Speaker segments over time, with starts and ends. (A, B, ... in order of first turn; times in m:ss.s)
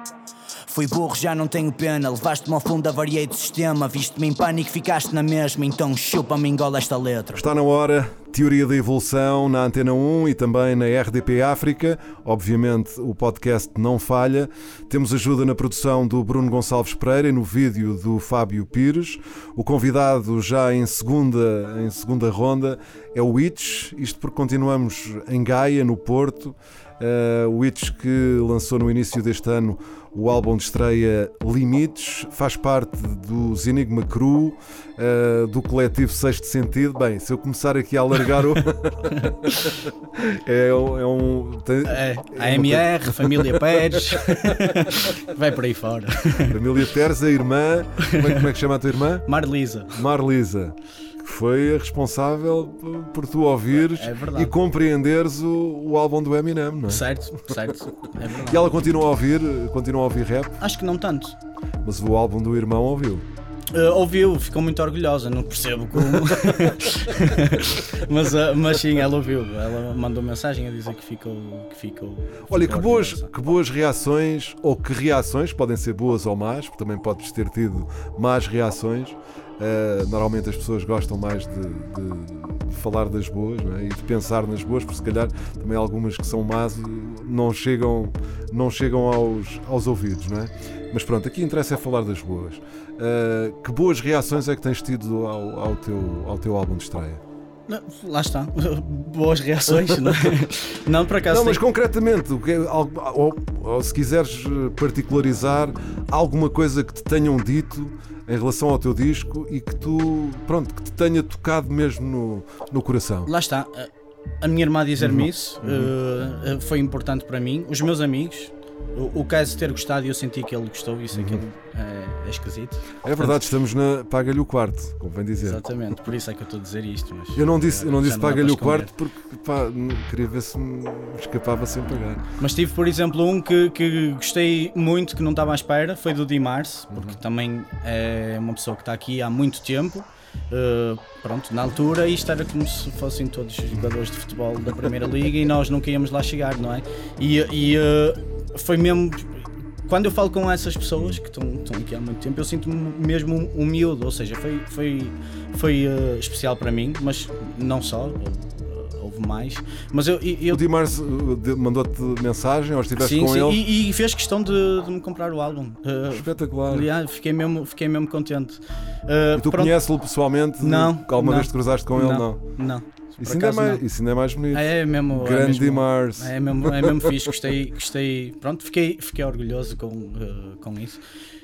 0:00.7-0:07.4 A
0:07.4-0:44.7 B
0:39.2-0:39.6 C
0:41.9-0:46.6 C
0:46.5-0:49.3 B
0:48.0-0:48.5 C
0:49.3-0:50.0 C
0:49.9-0:57.1 B
0:53.9-0:54.5 C
0:56.9-0:58.8 C
0:58.4-1:00.6 B
1:00.6-1:01.4 C
1:01.8-1:03.3 B
1:03.7-1:13.3 C
1:06.1-1:06.4 B
1:12.5-1:37.2 B
1:37.7-1:41.6 C
1:39.8-1:40.3 B
1:41.3-1:53.3 B
1:53.3-2:03.4 C
1:55.0-1:55.9 B
2:01.1-2:01.4 B
2:03.0-2:05.6 B
2:05.4-2:08.9 C
2:07.4-2:12.2 B
2:12.4-2:40.6 C
2:16.9-2:17.2 B
2:40.5-2:43.6 B
2:43.0-2:49.8 C
2:46.1-2:46.9 B
2:49.4-2:52.6 B
2:50.6-2:53.9 C
2:53.2-2:57.2 B
2:54.5-3:01.0 C